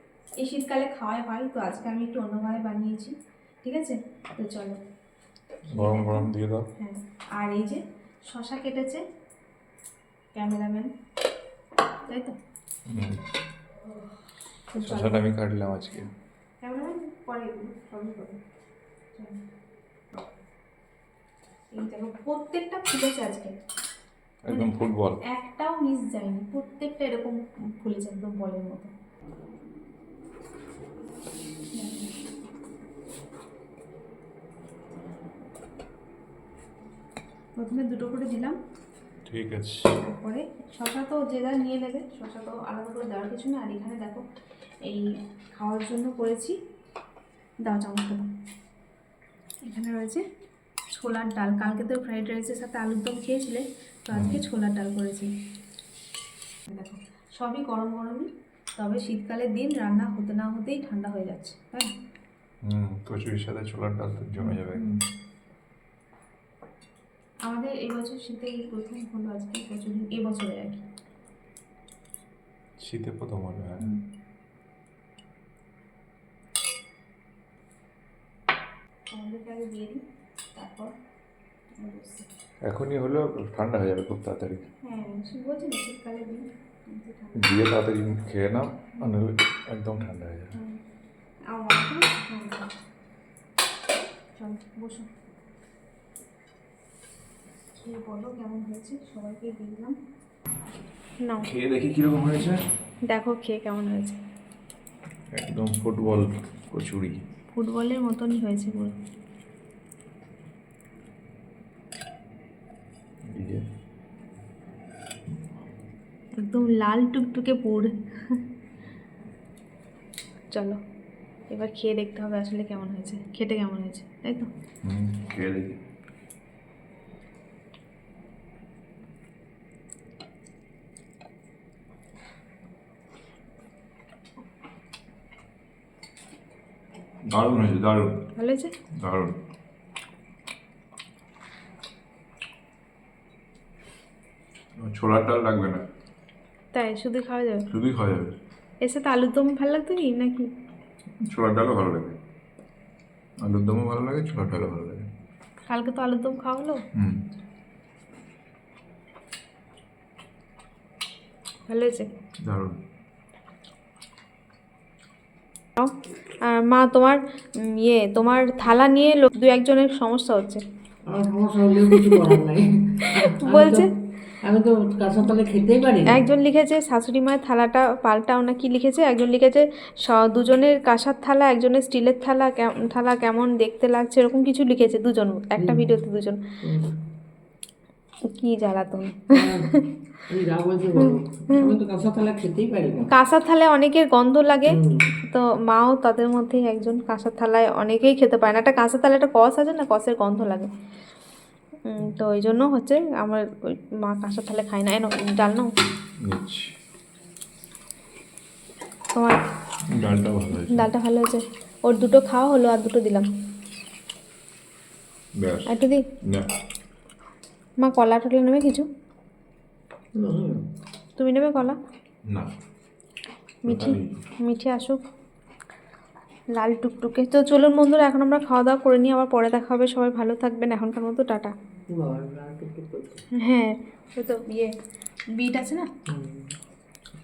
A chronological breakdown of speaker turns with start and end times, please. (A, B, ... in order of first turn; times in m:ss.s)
0:00.4-0:04.8 A
0:05.7-0:06.7 B
0:05.7-0:09.0 A
0:10.3-0:10.9 A
0:12.1-0:12.4 A
0:12.8-0:13.2 B
0:14.7-0:15.2 A
0:14.8-0:16.1 B
0:16.6-0:18.4 A
0:21.7-0:23.6 A
0:24.4-0:25.2 B
0:24.5-0:28.9 A
0:31.7-0:32.1 A
0:37.6-0:38.6 A
0:39.2-0:39.9 B
0:40.0-0:44.2 A
0:44.8-0:46.6 A
0:47.6-0:48.2 A
0:49.6-0:50.2 A
0:50.9-0:55.3 A
0:54.1-0:54.4 B
0:56.7-1:01.9 A
1:02.6-1:05.0 B
1:04.4-1:05.0 A
1:07.4-1:10.8 A
1:12.8-1:13.9 B
1:19.1-1:20.0 A
1:20.5-1:20.9 A
1:21.8-1:22.3 A
1:22.6-1:24.6 B
1:24.8-1:27.5 A
1:27.4-1:30.6 B
1:30.5-1:30.8 A
1:31.5-1:32.7 A
1:34.4-1:35.1 A
1:37.8-1:40.0 A
1:41.2-1:41.5 A
1:41.4-1:42.6 B
1:43.1-1:44.2 A
1:45.3-1:47.2 B
1:47.5-1:48.9 A
1:53.3-1:53.6 B
1:56.4-1:58.4 A
2:00.5-2:00.8 A
2:01.5-2:04.5 A
2:04.8-2:05.8 B
2:17.3-2:18.3 B
2:18.4-2:18.7 A
2:19.0-2:19.4 B
2:24.8-2:25.8 B
2:26.7-2:27.7 A
2:27.7-2:28.4 B
2:28.8-2:30.5 A
2:31.2-2:32.2 B
2:33.4-2:35.0 B
2:35.7-2:36.8 A
2:36.9-2:37.2 B
2:41.7-2:42.1 A
2:42.4-2:42.8 B
2:45.8-2:50.6 A
2:51.1-2:53.9 C
2:51.9-2:52.3 A
2:53.0-2:53.9 A
2:54.4-2:56.2 C
2:56.0-3:06.4 A
3:06.6-3:06.9 C
3:08.2-3:09.9 A
3:09.3-3:13.1 C
3:11.0-3:11.7 A
3:13.1-3:20.7 A
3:14.7-3:15.1 C
3:21.8-3:25.7 A
3:26.2-3:26.8 B
3:29.1-3:29.4 A
3:29.9-3:30.9 B
3:30.7-3:33.3 A
3:35.4-3:35.7 B
3:35.7-3:36.1 A
3:36.2-3:36.5 B
3:37.8-3:38.9 A
3:40.1-3:40.6 C
3:41.2-3:41.8 A
3:43.6-3:45.0 A
3:43.6-3:44.2 B
3:46.5-3:51.5 A
3:51.9-3:53.2 C
3:53.4-3:54.7 A
3:55.3-3:55.9 A
3:56.1-3:56.5 C